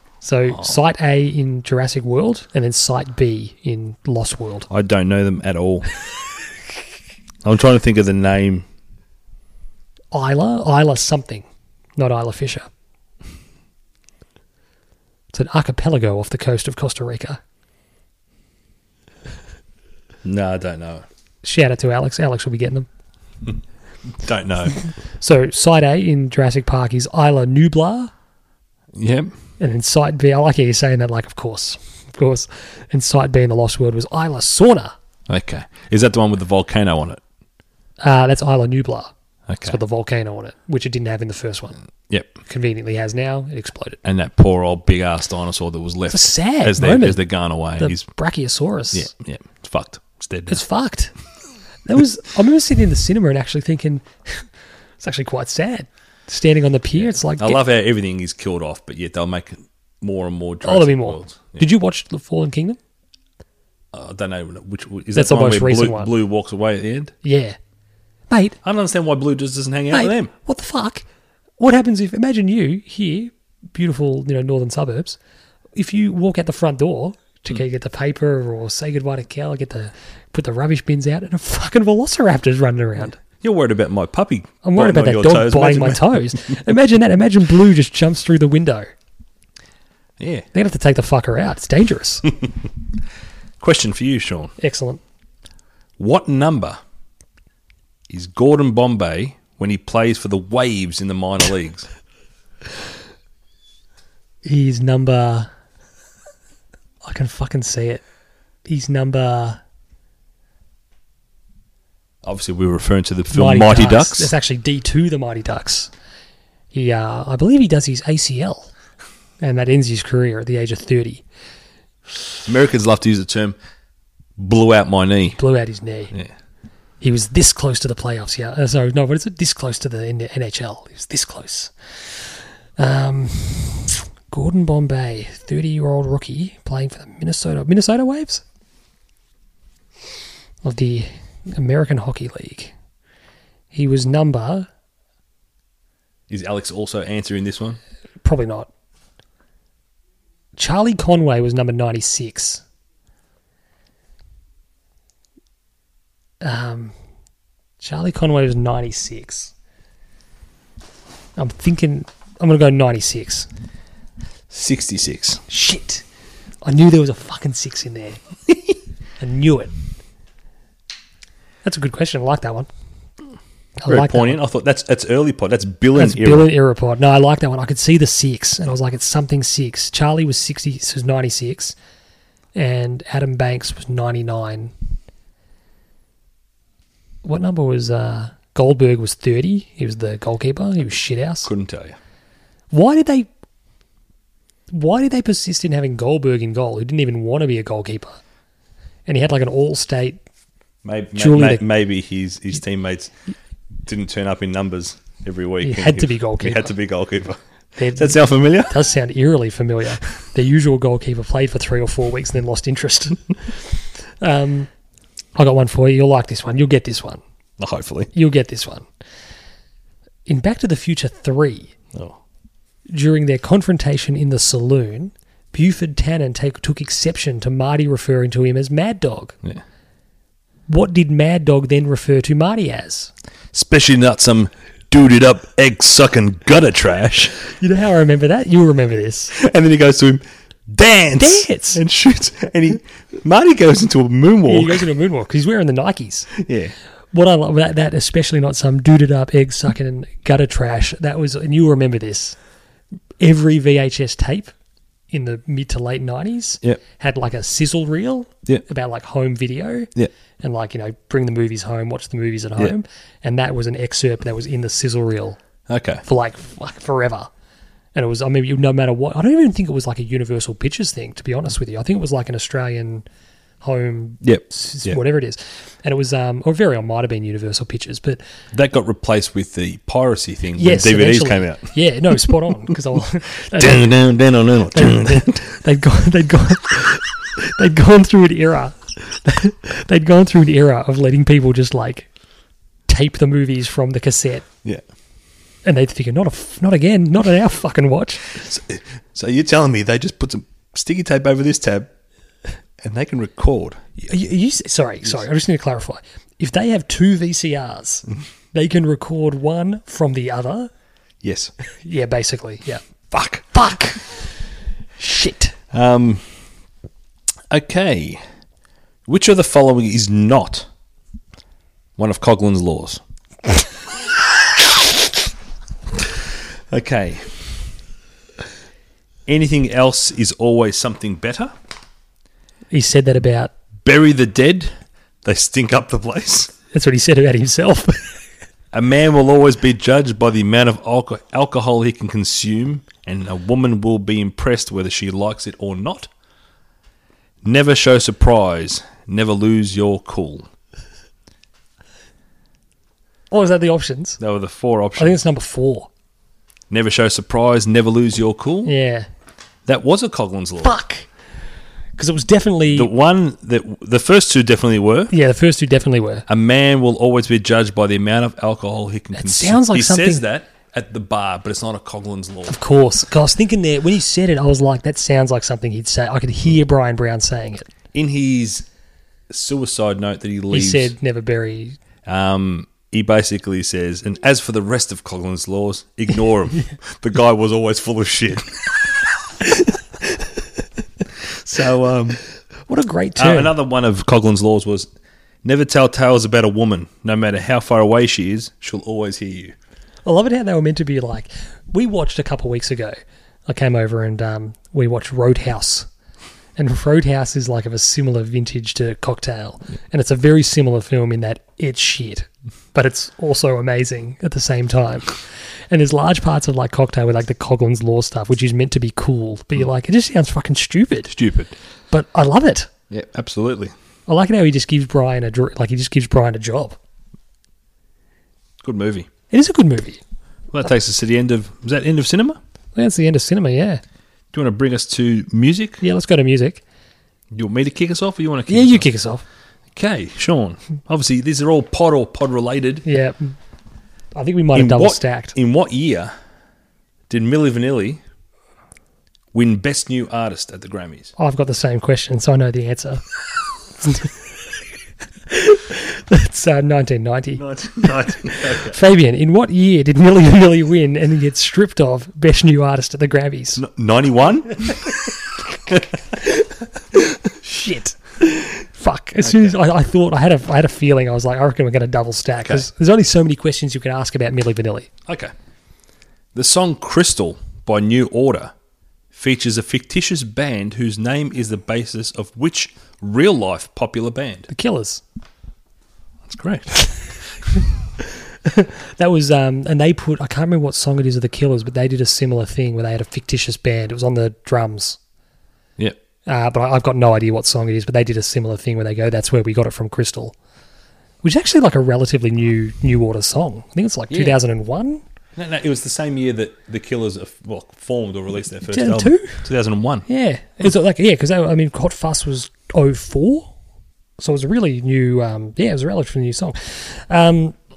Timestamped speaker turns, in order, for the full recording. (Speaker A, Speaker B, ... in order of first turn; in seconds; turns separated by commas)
Speaker A: 0.2-4.7, Speaker B: 4.7-5.9, Speaker B: 7.4-8.7, Speaker A: 10.1-11.4, Speaker A: 12.0-12.7, Speaker A: 15.3-17.4, Speaker B: 20.2-21.0, Speaker A: 21.4-22.9, Speaker B: 24.2-24.8, Speaker A: 24.8-28.1, Speaker B: 28.9-29.3, Speaker A: 29.6-34.9, Speaker B: 35.3-37.2, Speaker A: 38.0-39.1, Speaker B: 39.5-39.8, Speaker A: 39.6-41.8, Speaker A: 42.5-44.0, Speaker B: 44.0-48.1, Speaker A: 46.1-47.2, Speaker A: 47.8-49.1, Speaker B: 48.9-50.6, Speaker A: 50.5-51.1, Speaker A: 51.8-57.6, Speaker B: 57.0-61.7, Speaker A: 60.6-62.8, Speaker B: 63.9-67.1, Speaker A: 65.1-66.1, Speaker A: 67.2-67.5, Speaker A: 68.3-68.6, Speaker B: 68.6-70.3, Speaker A: 69.9-71.0, Speaker A: 71.6-75.2, Speaker A: 75.7-83.2, Speaker B: 83.4-86.4, Speaker A: 84.6-88.9, Speaker B: 90.2-90.5, Speaker A: 90.5-92.3, Speaker B: 93.6-94.5, Speaker A: 94.6-95.0, Speaker B: 96.0-96.8, Speaker B: 98.1-101.9, Speaker A: 104.4-105.5, Speaker A: 107.0-108.0, Speaker A: 108.7-109.6, Speaker B: 112.2-114.3, Speaker A: 113.3-115.9, Speaker A: 116.7-118.7, Speaker A: 119.4-121.2, Speaker B: 122.4-123.5, Speaker B: 124.4-125.4, Speaker A: 125.3-126.1, Speaker A: 127.0-138.4, Speaker A: 140.6-142.7, Speaker A: 143.7-144.7, Speaker B: 146.3-147.8, Speaker A: 148.2-148.7, Speaker A: 150.6-152.6, Speaker A: 156.4-156.9, Speaker A: 157.8-159.5, Speaker A: 161.4-163.5, Speaker B: 164.5-165.4, Speaker A: 165.5-166.0, Speaker A: 166.6-168.2, Speaker A: 169.2-169.7, Speaker A: 171.6-172.7, Speaker A: 173.8-174.4, Speaker B: 173.9-176.5, Speaker A: 175.9-181.7, Speaker A: 182.5-184.7, Speaker A: 187.2-191.5, Speaker B: 191.4-192.0, Speaker A: 192.7-193.3, Speaker A: 194.7-198.2, Speaker A: 199.1-200.2, Speaker B: 200.8-203.1, Speaker A: 201.2-201.6, Speaker B: 203.8-207.4, Speaker A: 205.6-206.7, Speaker A: 207.8-214.7, Speaker B: 207.9-208.8, Speaker A: 215.3-217.2, Speaker B: 217.6-218.1, Speaker A: 218.1-218.9, Speaker A: 220.3-221.7, Speaker A: 222.9-229.3, Speaker A: 230.7-233.1, Speaker B: 233.5-237.3, Speaker A: 237.5-239.3, Speaker B: 239.3-244.8, Speaker A: 241.2-241.8, Speaker A: 244.4-246.3, Speaker B: 246.4-246.7, Speaker A: 247.1-252.4, Speaker A: 253.2-254.5, Speaker A: 255.1-265.4, Speaker B: 265.7-266.0, Speaker A: 266.0-267.3, Speaker A: 267.9-273.1, Speaker A: 273.6-278.2, Speaker B: 274.2-275.0, Speaker B: 278.5-281.7, Speaker A: 280.6-284.0, Speaker B: 283.5-285.4, Speaker A: 284.7-292.1, Speaker A: 292.9-294.4, Speaker A: 295.6-298.4, Speaker B: 298.4-301.9, Speaker B: 302.8-304.0, Speaker A: 304.1-310.7, Speaker B: 311.2-311.5, Speaker A: 311.8-314.3, Speaker B: 313.1-313.4, Speaker A: 315.0-315.5, Speaker B: 315.7-316.2, Speaker B: 317.5-318.2, Speaker B: 319.1-320.7, Speaker B: 322.0-323.0, Speaker B: 326.7-327.4, Speaker B: 329.3-331.5, Speaker A: 332.7-333.5, Speaker B: 333.8-334.7, Speaker B: 335.2-336.5, Speaker A: 336.7-338.2, Speaker B: 338.7-346.1, Speaker B: 347.4-350.5, Speaker A: 353.3-354.2, Speaker B: 354.2-355.2, Speaker A: 355.0-355.9, Speaker B: 356.7-358.7, Speaker A: 358.6-359.1, Speaker B: 359.6-360.7, Speaker A: 360.6-361.1, Speaker A: 362.0-362.9, Speaker B: 362.7-365.1, Speaker A: 365.1-366.2, Speaker B: 366.3-372.6, Speaker A: 369.1-370.2, Speaker A: 372.5-377.7, Speaker B: 377.9-378.6, Speaker B: 379.3-380.9, Speaker A: 380.5-381.8, Speaker B: 382.0-388.7, Speaker B: 391.2-392.2, Speaker A: 392.7-393.5, Speaker B: 393.1-394.9, Speaker B: 395.4-399.5, Speaker A: 400.0-402.9, Speaker A: 403.5-405.9, Speaker A: 406.6-421.1, Speaker B: 421.1-421.5, Speaker A: 421.9-422.7, Speaker B: 422.9-423.7, Speaker A: 424.1-426.8, Speaker B: 428.6-429.1, Speaker A: 429.3-430.0, Speaker B: 430.5-432.4, Speaker A: 432.8-433.8, Speaker B: 434.3-435.8, Speaker A: 435.8-436.6, Speaker B: 437.3-438.9, Speaker A: 438.5-439.2, Speaker B: 439.7-442.8, Speaker A: 442.8-443.3, Speaker A: 444.1-445.4, Speaker B: 444.5-446.1, Speaker B: 447.1-448.0, Speaker B: 449.3-451.1, Speaker A: 451.2-453.0, Speaker A: 453.8-454.1, Speaker A: 455.3-463.6, Speaker B: 457.4-458.8, Speaker B: 463.6-464.9, Speaker A: 466.1-474.9, Speaker B: 469.2-469.6, Speaker B: 475.1-475.3, Speaker B: 476.3-478.5, Speaker B: 479.1-484.5, Speaker A: 484.5-485.0, Speaker B: 486.2-486.8, Speaker A: 488.4-495.0, Speaker A: 496.2-500.3, Speaker A: 501.2-505.0, Speaker B: 504.1-504.4, Speaker B: 505.4-510.0, Speaker A: 508.7-509.4, Speaker A: 510.1-513.5, Speaker A: 514.2-517.6